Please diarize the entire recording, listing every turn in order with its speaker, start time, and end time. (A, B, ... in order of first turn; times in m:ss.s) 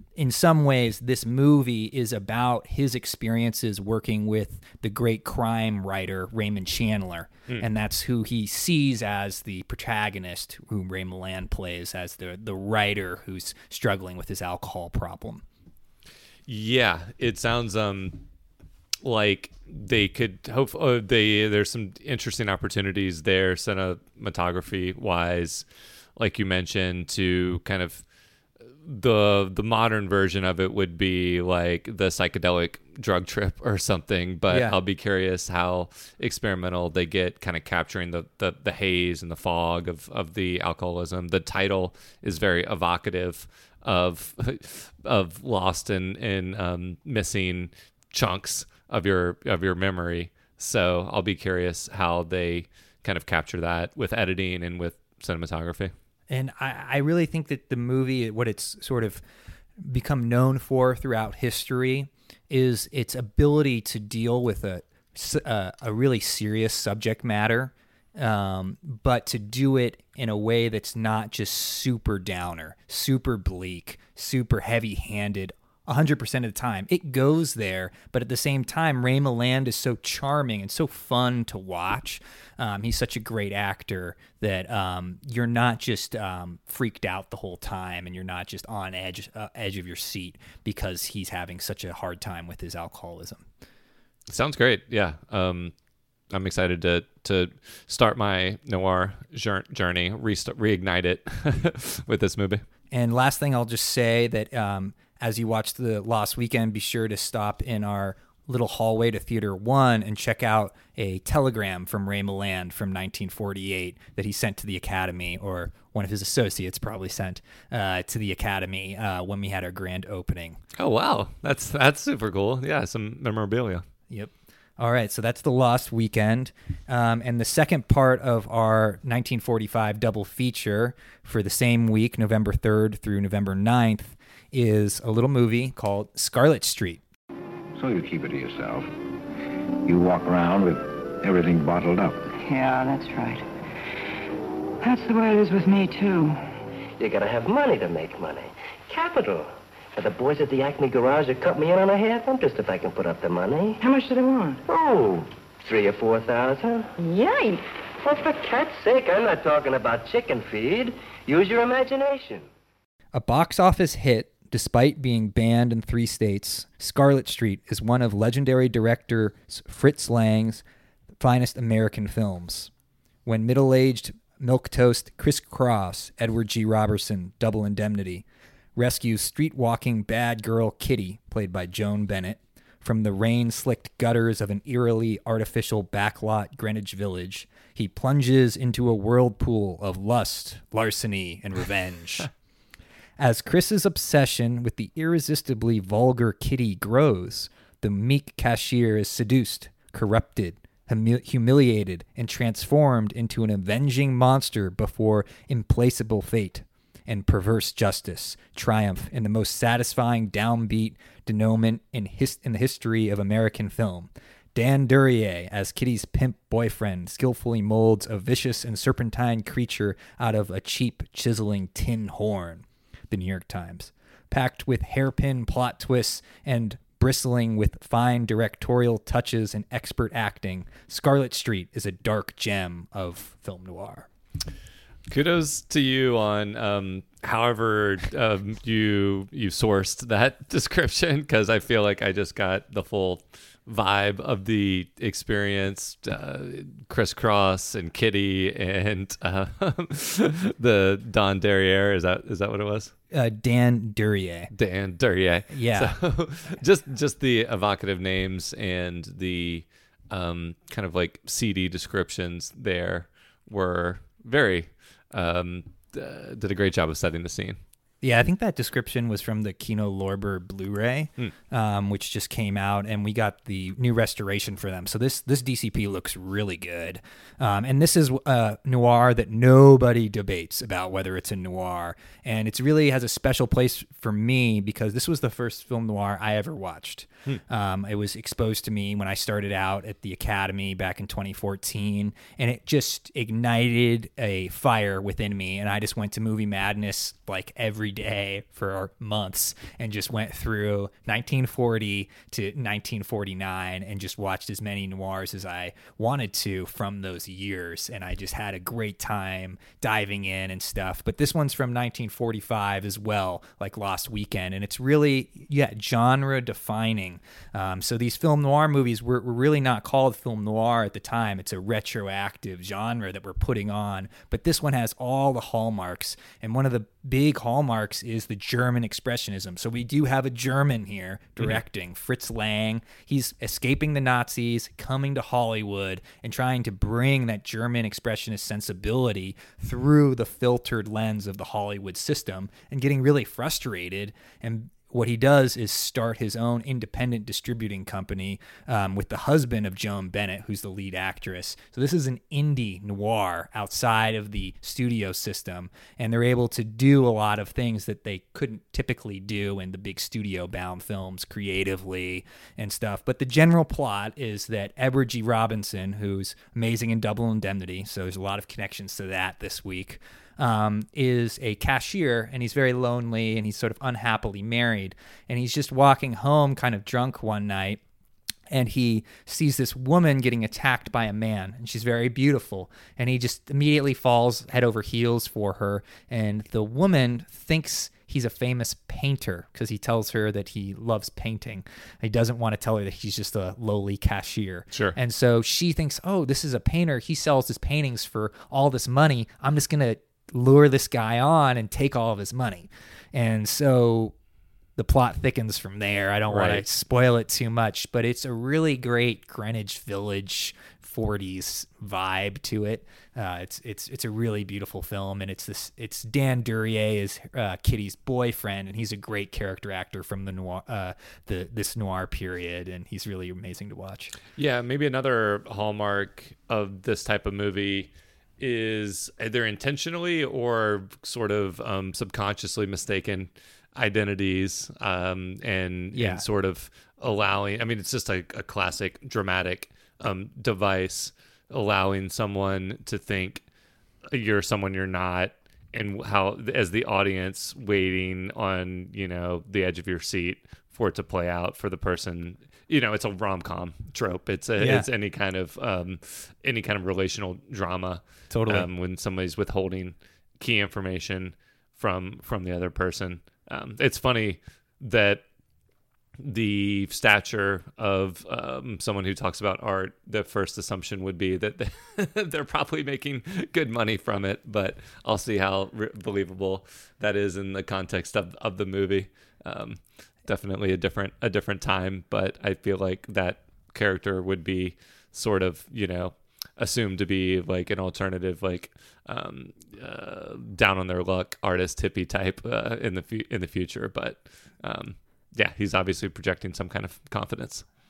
0:00.2-0:15.4 A
0:16.4-0:18.2 B
0:19.0-0:28.0 B
0:28.7-0:55.9 B
0:34.5-0:34.8 A
0:56.3-0:59.2 A
0:59.8-1:33.4 A
1:34.3-1:35.7 B
1:36.3-1:42.6 B
1:42.9-2:00.6 A
2:00.8-2:03.8 B
2:04.1-2:17.0 A
2:17.7-2:18.9 C
2:19.8-2:22.3 C
2:22.4-2:23.4 D
2:24.8-2:26.4 D
2:27.0-2:33.8 E
2:33.8-2:34.6 D
2:34.7-2:36.9 E
2:37.0-2:37.6 D
2:38.0-2:42.4 E
2:43.1-2:50.6 A
2:51.2-2:52.7 A
2:53.2-2:58.2 A
2:58.8-3:12.3 A
3:13.2-3:54.1 A
3:55.1-4:12.9 B
4:13.1-4:14.5 A
4:14.5-4:27.6 B
4:15.5-4:15.9 A
4:28.0-6:17.8 A
6:18.5-6:44.1 A
6:34.7-6:35.0 B
6:44.8-7:04.1 A
6:46.3-6:46.6 B
7:04.4-7:23.4 B
7:15.9-7:16.2 A
7:24.1-7:45.2 B
7:34.6-7:34.9 A
7:38.3-7:38.7 A
7:46.2-8:17.6 B